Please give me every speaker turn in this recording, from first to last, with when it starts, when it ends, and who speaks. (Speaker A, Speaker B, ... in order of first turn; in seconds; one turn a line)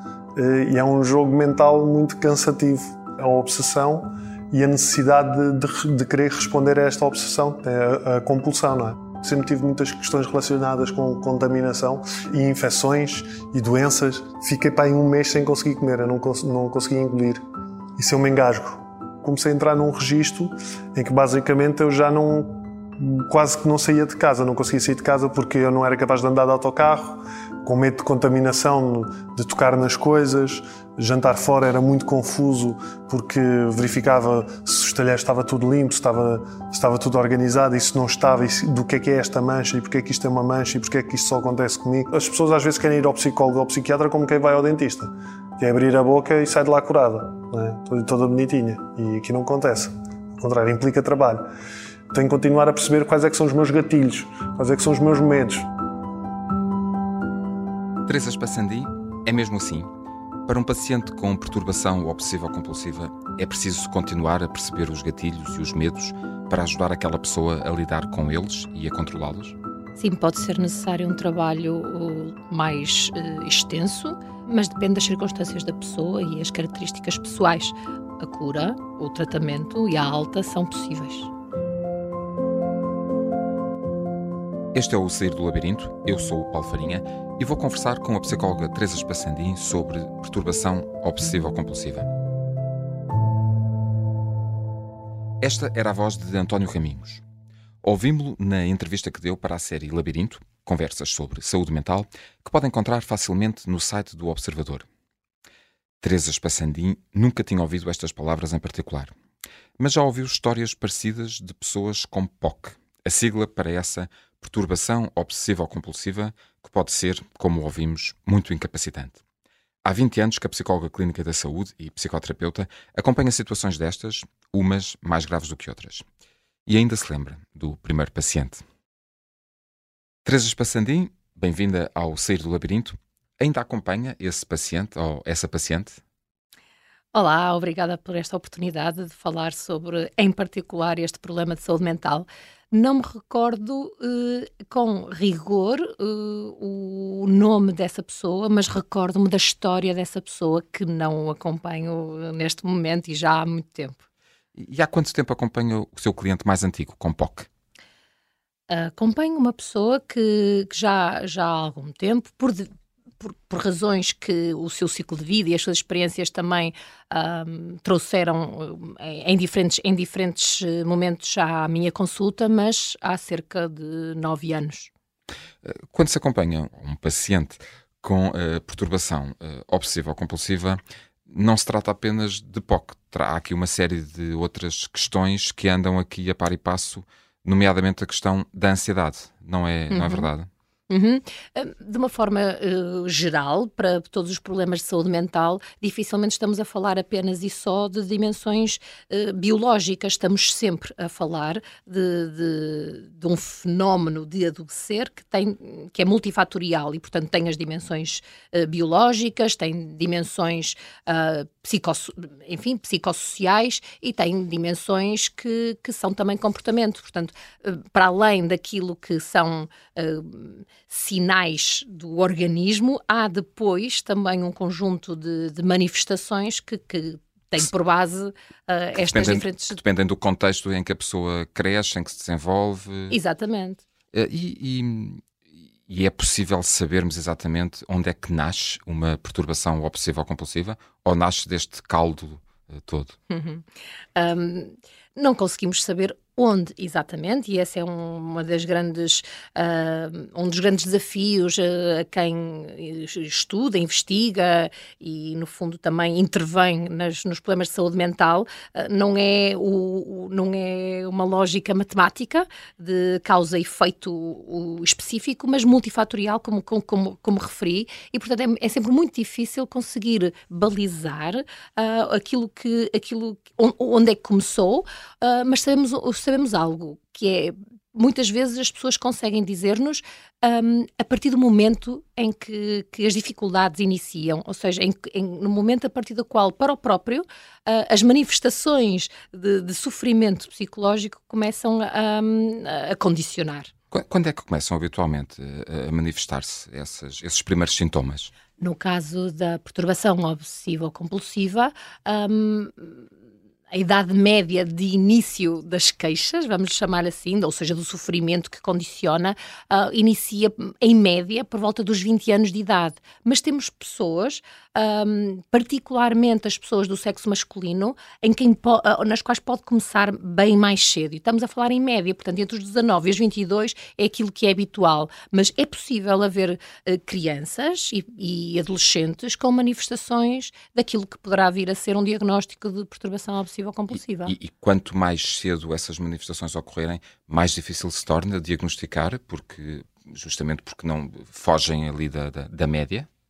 Speaker A: 0.3-17.4
Speaker A: 18.0-51.5
Speaker A: 52.1-55.7
Speaker B: 58.0-59.9
Speaker B: 60.5-69.5
Speaker C: 70.0-81.3
Speaker B: 84.7-92.1
Speaker B: 95.4-97.2
Speaker B: 97.8-104.8
Speaker B: 106.0-109.1
Speaker B: 109.8-119.2
Speaker B: 119.8-126.0
Speaker B: 126.7-128.6
Speaker B: 130.2-136.0
Speaker C: 137.1-154.0
Speaker B: 154.5-157.5
Speaker C: 158.7-174.9
Speaker B: 175.6-190.5
Speaker C: 189.9-190.3
Speaker C: 190.9-229.8
Speaker B: 229.0-233.2
Speaker C: 233.1-233.8
Speaker B: 234.1-235.2
Speaker B: 235.9-243.2
Speaker C: 243.3-293.7
Speaker B: 293.9-298.3
Speaker C: 298.6-303.1
Speaker C: 303.7-334.3
Speaker B: 334.2-343.1